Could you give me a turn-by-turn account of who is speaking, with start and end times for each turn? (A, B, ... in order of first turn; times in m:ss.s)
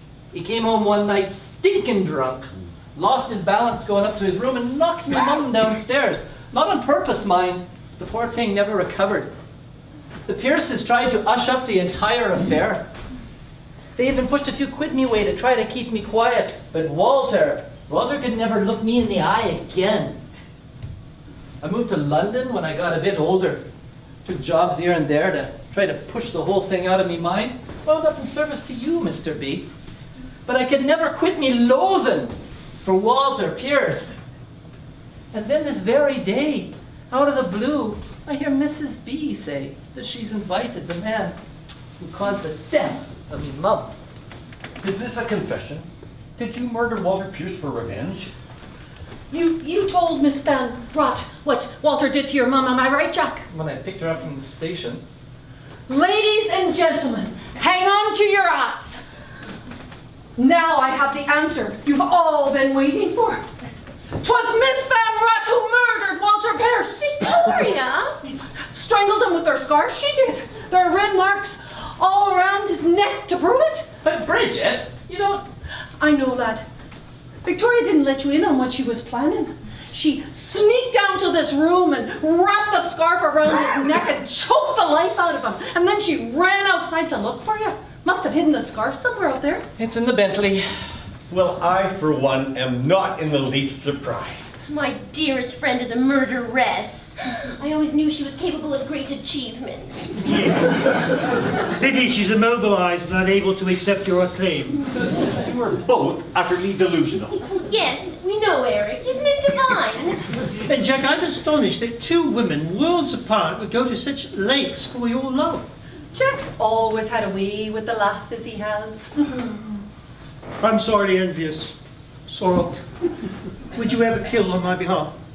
0:00.3-0:09.3 A
0:10.2-0:12.9 A
0:14.0-0:20.2 A
0:21.6-0:23.6 A
0:24.2-0:29.7 A
0:30.4-0:34.2 A
0:35.3-0:41.4 A
0:42.0-0:43.9 A
0:44.8-0:45.8 B
0:46.4-0:48.3 B
0:49.3-0:53.4 C
0:53.5-0:55.0 A
0:55.9-0:59.0 C
1:00.4-1:03.4 C
1:04.2-1:07.7 C
1:07.0-1:08.1 D
1:08.7-1:13.9 C
1:14.0-1:15.5 A
1:16.0-1:16.6 C
1:17.4-1:29.6 C
1:29.8-1:30.7 A
1:31.3-1:34.6 B
1:34.7-1:40.2 D
1:40.2-1:40.9 E
1:41.7-1:44.8 E
1:45.3-1:47.4 B
1:47.5-1:50.2 D
1:50.6-1:55.7 E
1:56.1-1:59.6 C
2:00.6-2:01.7 E
2:02.3-2:02.8 E
2:03.7-2:05.2 E